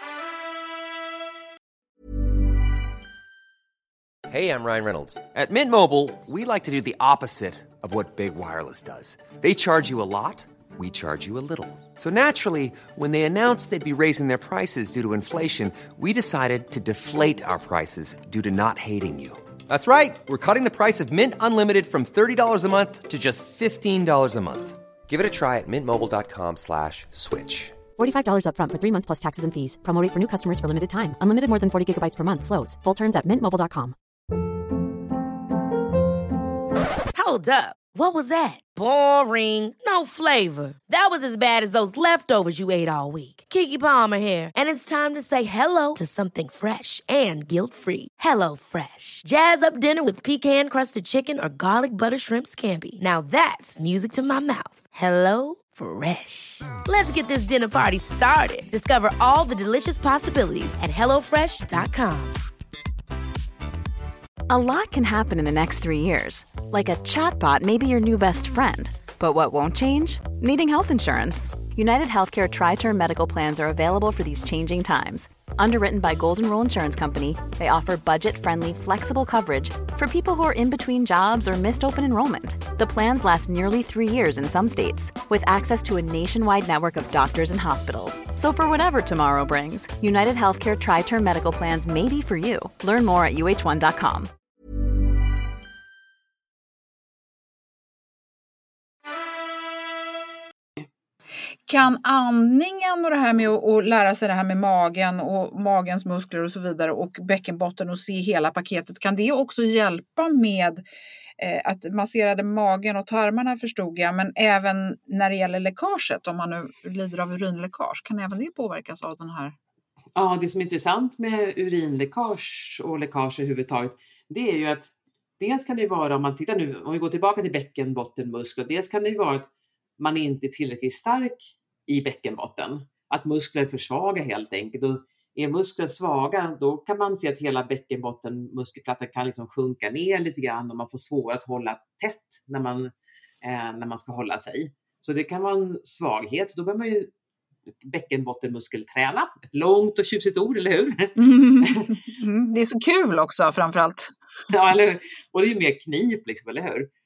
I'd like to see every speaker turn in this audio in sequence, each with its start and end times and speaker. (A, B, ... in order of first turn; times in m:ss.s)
0:04.3-0:27.8 A
0:28.0-0:34.0 B
0:37.1-1:02.4 C
1:04.5-1:34.3 D
1:41.7-1:50.8 E
1:51.4-1:59.5 E
2:00.2-2:09.5 F
2:10.0-2:27.1 F
2:27.8-2:31.9 F
2:31.2-2:34.1 E
2:34.5-2:36.9 F